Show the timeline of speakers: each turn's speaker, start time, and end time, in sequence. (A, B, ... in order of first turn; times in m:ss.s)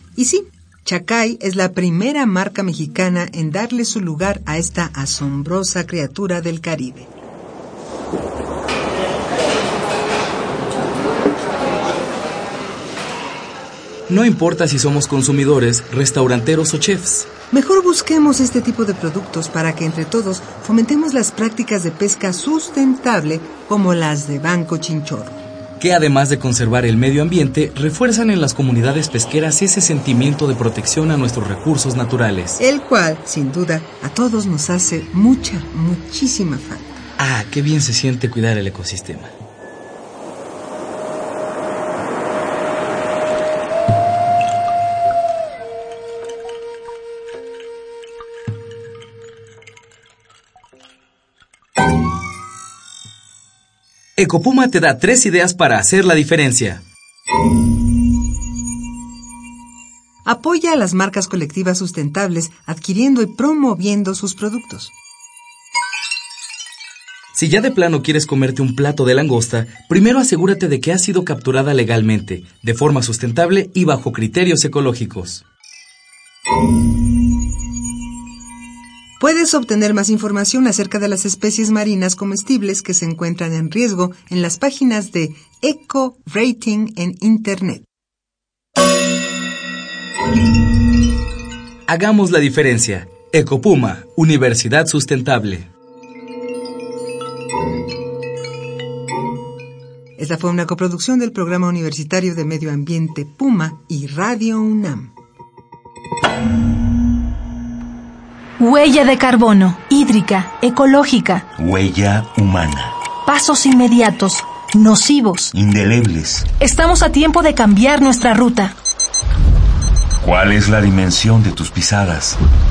0:00.2-0:07.1 A
0:14.1-0:17.3 B
0:17.5-0:25.4 A
0:25.8-0:32.6 B
0:32.6-0:36.9 A
0:37.2-0:39.3 B
0:54.2-0:56.8 B
1:00.2-1:04.9 A
1:07.3-1:15.4 B
1:19.2-1:27.8 A
1:31.9-1:35.7 B
1:40.2-1:45.1 A
1:48.6-1:51.5 C
1:51.6-1:53.0 D
1:53.2-1:55.5 C
1:55.5-1:56.5 D
1:56.6-1:58.8 C
2:00.2-2:02.4 D